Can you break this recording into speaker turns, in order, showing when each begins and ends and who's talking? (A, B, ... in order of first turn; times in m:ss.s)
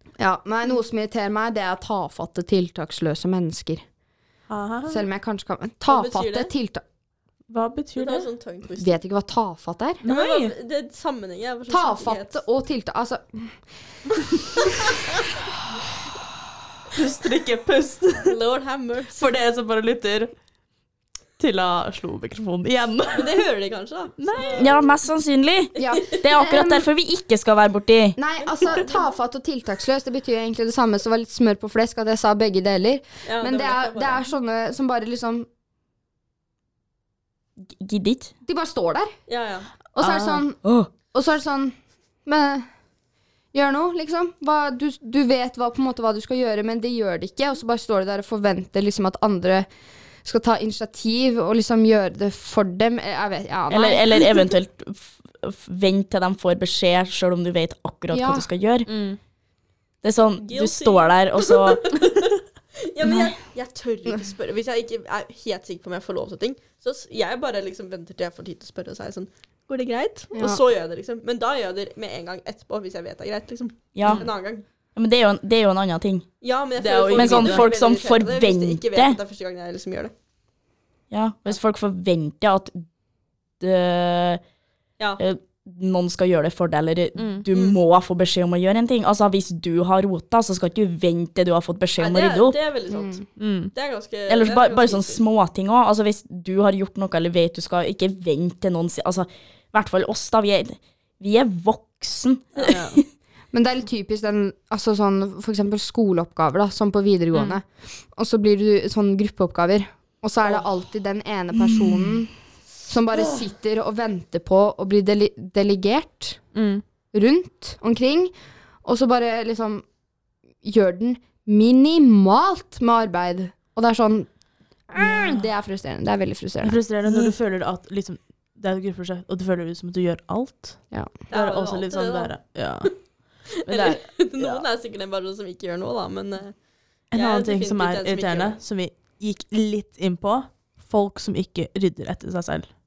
0:00.2-0:03.8 A
0:04.5-0:05.0 B
0:04.9-0:06.8 A
0:05.9-0:06.5 C
0:07.5-0:08.3 B
0:08.0-0:09.0 C
0:08.8-0:10.0 A
0:10.0-0:10.5 B
0:10.0-0:12.4 C
0:11.7-0:13.6 A
0:16.9-0:18.4 B
0:18.2-0:19.3 C
0:19.2-0:20.3 B
0:21.4-0:23.4 B
0:23.1-0:24.8 C
0:24.2-0:24.8 B
0:24.6-0:28.2 D
0:25.8-0:26.9 A
0:28.2-0:35.5 A
0:28.4-0:29.0 C
0:33.3-0:34.2 C
0:37.7-0:38.3 D
0:38.5-0:39.2 A
0:39.3-0:39.7 C
0:39.9-0:40.6 A
0:40.6-0:40.9 D
0:41.1-0:42.7 A
0:43.5-0:49.7 A
0:50.2-0:54.3 A
0:53.7-0:58.9 D
0:58.1-0:58.5 A
0:58.9-0:59.2 B
1:00.0-1:01.8 D
1:00.4-1:14.6 C
1:10.3-1:10.6 A
1:14.0-1:14.3 D
1:14.0-1:14.3 B
1:15.0-1:16.3 D
1:16.4-1:20.1 C
1:16.8-1:17.7 B
1:17.1-1:19.2 D
1:21.1-1:22.8 D
1:23.6-1:24.4 D
1:25.2-1:32.6 D
1:27.2-1:27.5 B
1:27.5-1:27.8 C
1:32.0-1:35.2 C
1:32.9-1:33.2 A
1:33.4-1:33.7 B
1:34.3-1:43.0 D
1:42.7-1:43.0 B
1:43.5-1:52.3 A
1:47.3-1:47.6 B
1:52.9-1:56.4 A
1:56.5-1:56.8 B
1:57.1-1:58.3 A
1:58.8-1:59.9 A
2:00.6-2:04.3 A
2:04.9-2:06.8 A
2:05.0-2:05.5 B
2:06.6-2:13.0 B
2:07.1-2:07.3 D
2:11.3-2:12.9 C
2:13.7-2:16.6 C
2:13.7-2:14.6 B
2:17.1-2:18.6 C
2:17.1-2:22.8 B